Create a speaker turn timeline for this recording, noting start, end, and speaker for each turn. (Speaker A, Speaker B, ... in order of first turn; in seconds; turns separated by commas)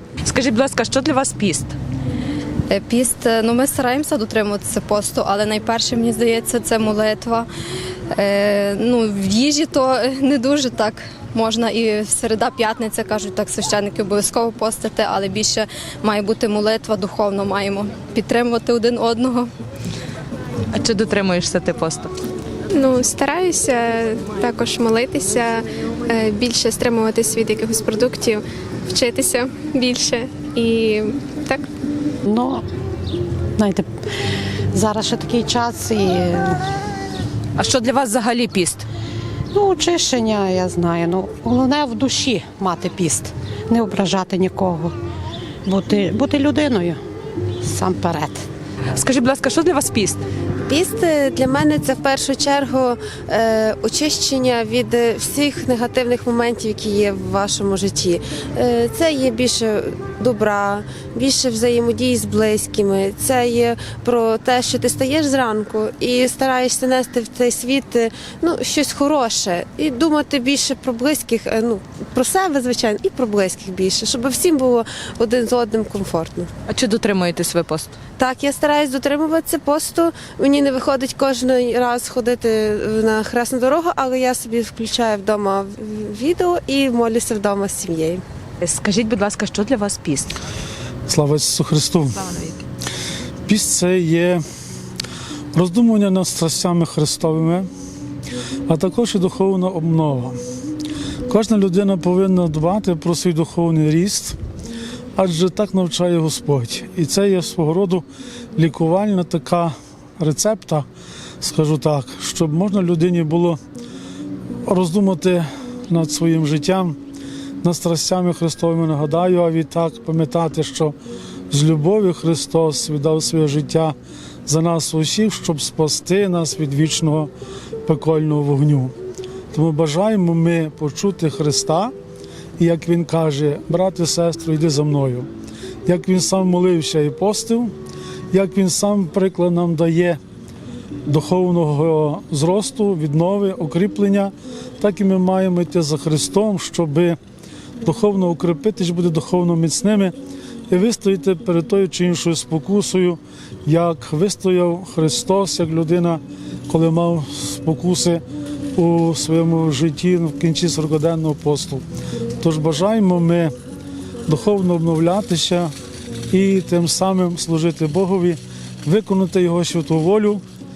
Speaker A: 0.2-1.8, Speaker B: 2.7-7.4, Speaker A: 2.8-7.2, Speaker B: 8.2-19.5, Speaker A: 11.5-11.8, Speaker A: 12.5-14.2, Speaker A: 16.2-18.2, Speaker A: 20.7-22.1, Speaker C: 22.8-28.4, Speaker C: 29.0-31.6, Speaker D: 32.3-32.6, Speaker D: 33.6-33.9, Speaker D: 34.7-36.6, Speaker A: 37.6-38.9, Speaker D: 39.5-44.9, Speaker D: 45.7-47.0, Speaker D: 47.6-48.5, Speaker A: 49.0-50.2, Speaker E: 50.7-76.5, Speaker A: 76.7-77.9, Speaker E: 78.2-88.2, Speaker A: 88.6-90.4, Speaker F: 91.1-92.3, Speaker A: 92.2-92.6, Speaker F: 93.5-94.4, Speaker F: 95.5-97.7, Speaker F: 98.7-100.4, Speaker F: 101.3-104.4, Speaker F: 105.2-108.0, Speaker F: 108.6-110.8, Speaker F: 111.4-113.6, Speaker F: 114.7-117.0, Speaker F: 117.6-121.0, Speaker F: 121.5-124.0, Speaker F: 124.5-127.3, Speaker F: 127.9-128.9, Speaker F: 129.5-131.9, Speaker F: 132.6-135.3, Speaker F: 135.9-137.7, Speaker F: 138.3-140.2, Speaker F: 141.1-147.2, Speaker F: 147.8-150.1, Speaker F: 150.7-158.2, Speaker F: 158.8-161.8, Speaker F: 162.4-163.5, Speaker F: 164.3-165.7, Speaker F: 166.3-170.4